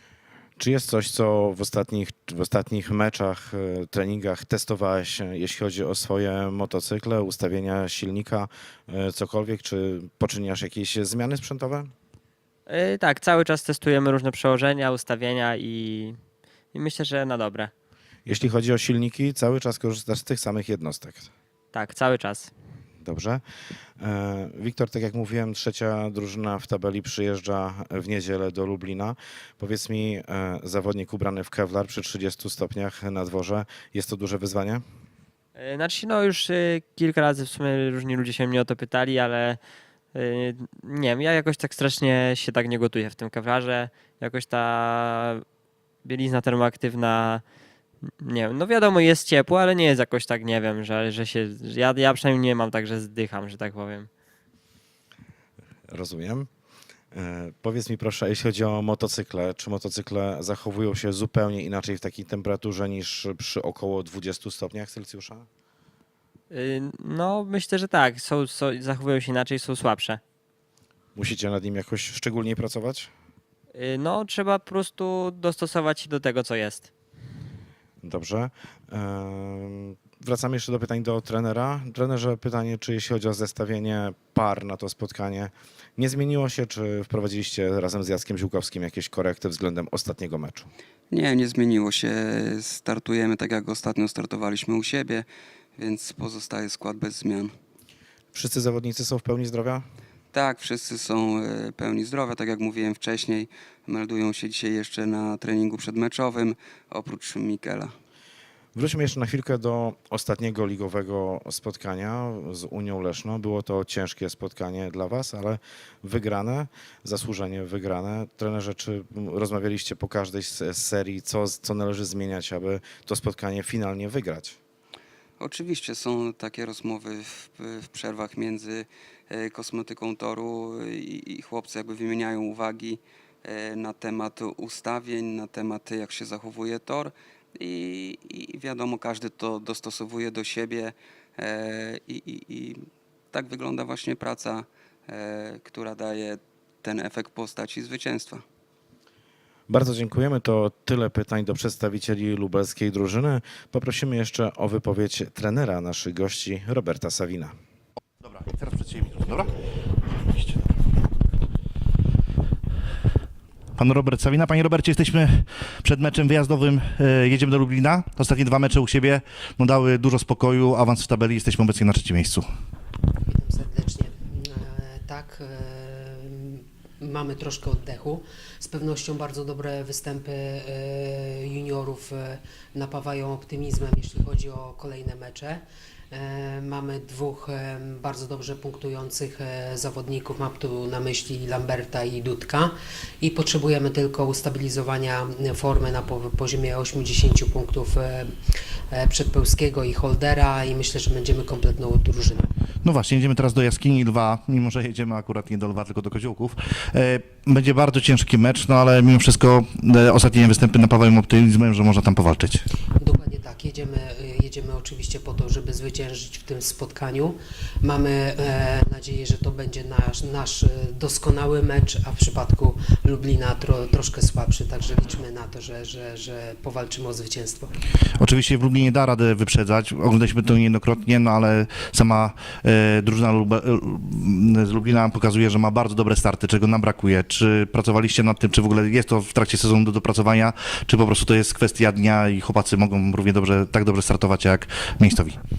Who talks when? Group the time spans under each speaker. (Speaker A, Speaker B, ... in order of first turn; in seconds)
Speaker A: 0.6-11.9, 18.3-21.3, 23.0-23.4, 24.0-34.8, 55.9-56.5, 57.1-65.5, 71.2-73.1, 78.0-90.7, 98.3-99.9, 108.8-124.6, 149.7-157.5
Speaker B: 12.7-16.2, 16.7-17.7, 21.7-22.5, 35.6-39.6, 40.1-45.4, 46.0-47.4, 48.2-54.1, 66.5-70.2, 73.7-76.9
Speaker C: 91.1-97.5, 100.3-107.9, 125.4-148.4
Speaker D: 158.2-159.5, 160.2-160.6, 163.8-172.5, 202.8-212.7, 228.2-245.4
Speaker E: 173.3-198.3, 198.9-202.5, 213.0-227.7